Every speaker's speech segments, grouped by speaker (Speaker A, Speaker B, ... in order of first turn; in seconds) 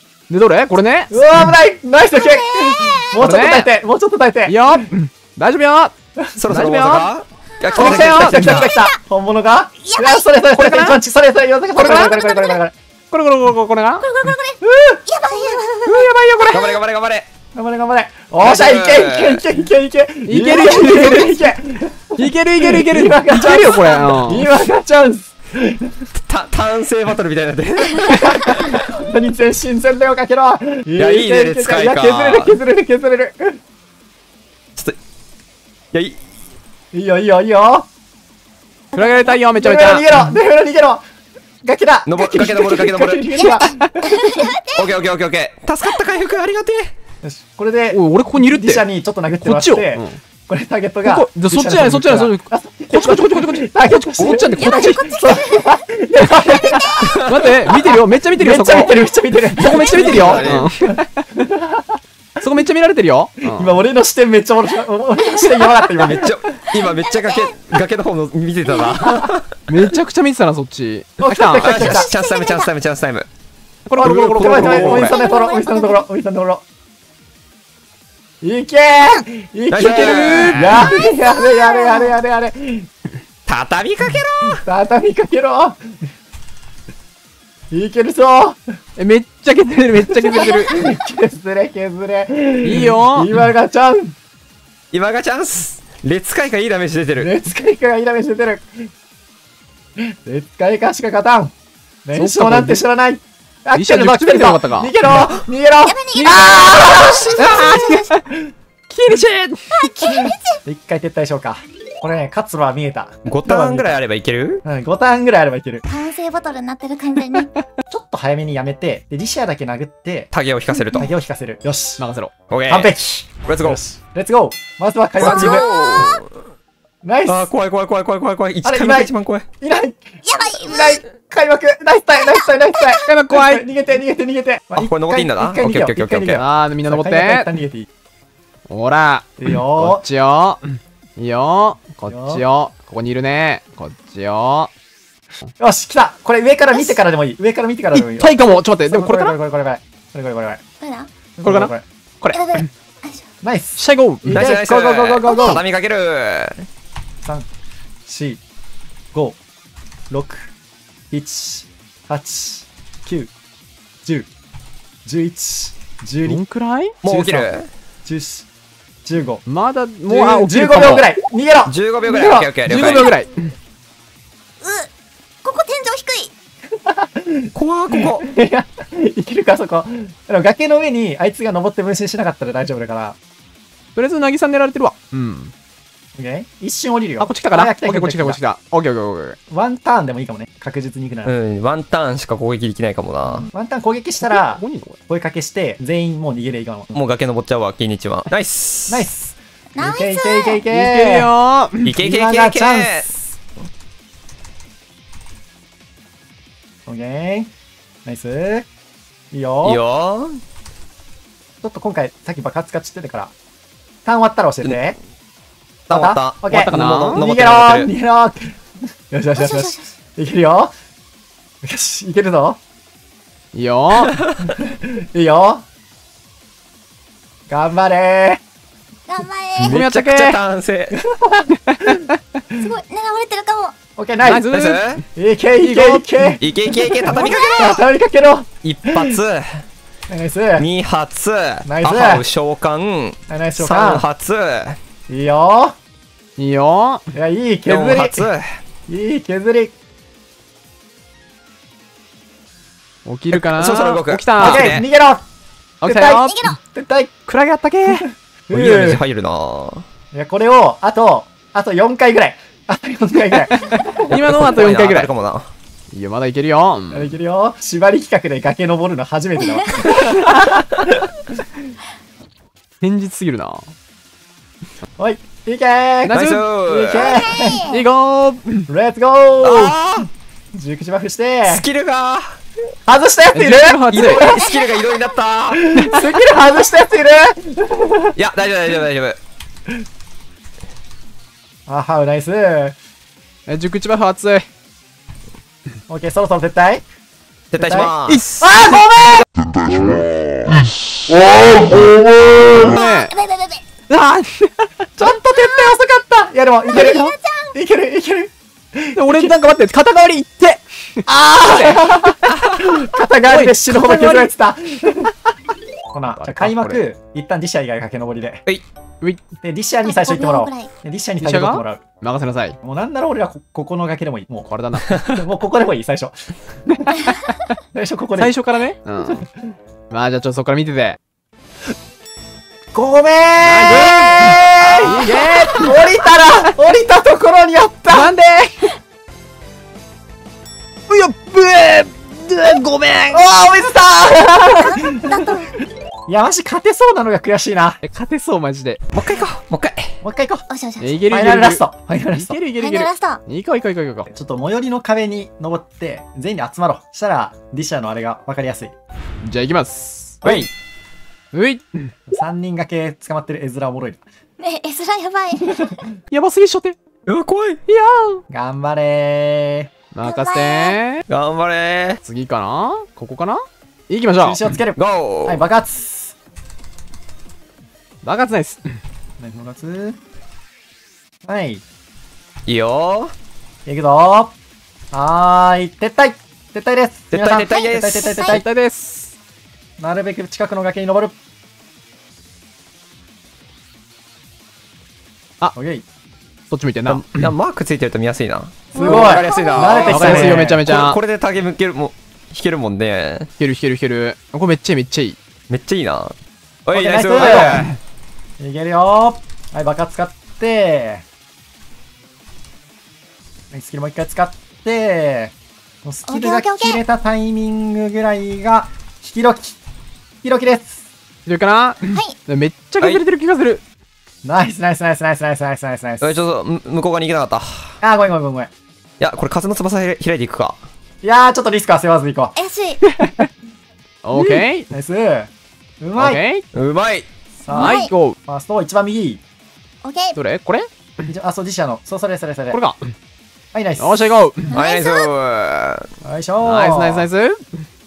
Speaker A: 0.3-1.1, 3.2-3.7, 4.5-5.9, 6.5-7.1, 7.8-8.7, 10.6-11.0, 11.8-12.2, 13.1-14.3, 15.8-16.8, 20.3-21.6, 22.2-24.5, 38.9-40.4, 43.6-44.3, 47.9-50.2, 51.0-55.4, 57.2-59.0, 59.5-61.4, 62.4-63.8, 69.7-71.8, 73.9-75.2, 79.8-81.0, 89.0-90.9, 92.6-93.3, 102.2-102.8, 103.8-104.9, 106.2-108.2, 108.9-110.2, 122.0-122.3, 133.0-133.6, 136.3-137.5, 138.7-144.7, 147.9-149.4, 151.4-152.7, 153.8-154.5, 166.3-167.0, 169.5-171.1, 172.7-173.5, 184.0-185.5, 187.2-189.4, 194.2-195.0, 200.7-202.0, 216.7-217.2, 223.5-224.2, 229.6-230.4, 231.7-232.2, 234.2-235.1, 235.6-236.4, 246.4-247.1, 253.1-254.8, 255.8-256.6, 257.3-258.1, 263.6-265.1, 265.9-267.1, 272.8-273.7, 276.1-276.5, 277.6-278.7, 283.3-284.3, 293.5-294.5, 298.1-298.9, 302.4-303.1, 303.9-304.9, 309.0-312.5, 313.3-314.3, 316.2-316.8, 321.2-322.6, 324.5-325.0, 328.2-329.2, 329.9-331.0, 333.4-335.8, 337.9-338.7, 340.9-343.3, 347.8-348.8, 350.8-354.1, 359.2-360.2, 361.3-362.0, 366.1-366.8, 367.7-368.2, 369.9-371.1, 372.0-374.5, 378.0-378.8, 388.3-389.1, 396.5-397.3, 399.8-401.0, 403.4-405.2, 421.3-423.6, 432.9-433.3, 434.0-434.7, 436.0-436.4, 437.5-438.2, 440.1-440.7, 442.5-442.9, 443.8-444.6, 446.4-447.4
Speaker B: 1.1-4.9, 7.8-12.7, 14.6-15.0, 17.6-26.1, 28.2-33.6, 36.9-37.9, 39.5-41.0, 41.6-43.9, 47.2-57.2, 57.9-62.0, 63.4-66.4, 71.2-72.1, 74.0-76.6, 78.4-82.9, 84.4-85.8, 87.7-88.7, 90.1-94.2, 97.2-98.9, 100.0-101.5, 102.0-107.7, 110.7-114.0, 114.6-115.8, 117.9-120.3, 121.0-122.0, 122.7-125.7, 127.0-127.5, 128.6-137.9, 139.4-140.0, 142.1-142.4, 145.6-148.3, 148.9-150.6, 151.4-151.8, 153.4-155.6, 158.1-158.4, 160.1-160.5, 161.1-163.3, 165.1-166.4, 167.0-167.5, 168.1-168.5, 169.1-169.4, 170.1-172.9, 176.8-183.2, 186.2-188.4, 189.5-191.3, 193.5-196.9, 198.9-201.3, 202.0-203.3, 206.9-207.5, 208.1-208.7, 209.3-209.8, 211.6-213.3, 214.1-215.0, 215.9-218.6, 219.1-220.7, 221.6-222.6, 224.5-225.6, 227.5-228.4, 230.9-232.1, 234.0-234.5, 235.2-239.2, 240.1-240.7, 241.7-242.2, 243.3-244.1, 245.1-245.8, 247.1-248.3, 248.9-249.7, 254.4-255.2, 255.8-257.1, 257.9-259.0, 260.1-264.0, 266.9-271.1, 275.0-277.7, 278.7-279.8, 280.5-281.7, 282.9-284.5, 285.5-288.1, 291.7-292.8, 295.9-296.8, 297.6-299.2, 305.0-309.3, 311.1-315.2, 315.9-318.4, 319.4-321.8, 322.6-324.5, 325.0-326.1, 327.7-328.4, 329.0-329.5, 332.7-338.1, 343.1-345.3, 346.1-347.8, 350.0-350.5, 351.1-352.4, 354.1-358.7, 360.2-360.5, 362.1-364.0, 368.3-369.7, 374.2-376.1, 379.2-380.0, 381.3-381.6, 383.7-384.3, 384.9-388.4, 389.8-391.1, 395.6-395.9, 398.8-400.6, 406.7-407.7, 408.4-411.0, 413.5-419.6, 420.2-420.8, 424.2-426.2, 427.8-428.5, 431.0-432.3, 434.1-435.3, 435.8-436.2, 437.4-439.2, 441.1-442.6, 443.5-444.1, 446.0-447.1
Speaker C: 2.1-3.2, 7.6-9.0, 9.8-10.3, 11.7-12.6, 14.0-16.7, 23.6-24.1, 38.9-39.3, 43.4-44.9, 54.5-57.3, 60.0-60.4, 65.3-65.7, 66.7-67.7, 68.7-69.2, 71.7-72.7, 74.9-76.1, 80.9-82.2, 105.8-108.2, 109.7-110.6, 115.9-117.5, 120.7-121.1, 125.2-126.2, 130.2-131.0, 132.2-132.5, 146.7-147.0, 150.8-151.1, 152.3-153.3, 174.6-174.9, 175.4-176.3, 199.8-200.6, 219.3-219.9, 229.1-229.8, 232.5-233.8, 237.1-237.8, 256.2-256.6, 276.9-277.8, 284.3-285.1, 302.5-303.7, 305.3-305.8, 306.7-307.5, 319.8-320.7, 344.6-345.5, 350.5-351.0, 352.6-353.2, 364.4-365.8, 370.0-370.8, 387.5-388.4, 398.7-400.2, 416.1-416.8, 432.4-432.9, 437.5-437.9, 439.8-440.2, 444.5-445.1
Speaker D: 6.4-8.7, 16.5-17.3, 18.4-19.4, 26.1-28.8, 31.0-32.6, 35.9-36.2, 42.0-43.2, 44.8-46.9, 57.0-57.5, 59.7-60.7, 66.0-69.9, 71.6-73.3, 74.0-75.1, 79.7-80.9, 83.5-84.6, 94.9-97.3, 113.2-114.6, 120.3-121.1, 122.5-123.8, 125.2-126.3, 127.3-129.5, 134.7-136.4, 154.3-156.7, 167.0-167.7, 171.7-173.2, 177.6-178.2, 191.2-193.5, 196.9-199.1, 201.8-203.1, 209.6-210.4, 215.9-217.9, 229.6-231.0, 234.4-235.0, 236.4-237.8, 238.6-239.6, 240.6-244.8, 247.7-248.6, 253.3-254.8, 258.5-259.9, 264.0-265.5, 276.1-277.2, 279.4-280.1, 281.5-282.4, 283.9-285.8, 288.1-289.2, 297.5-298.4, 334.6-335.1, 348.9-350.0, 360.2-360.5, 367.1-367.6, 371.1-372.0, 374.8-375.4, 382.5-383.1, 387.1-388.4, 396.9-403.3, 405.5-406.1, 406.7-407.8, 426.0-427.8, 429.0-430.6, 436.5-437.1, 444.5-445.9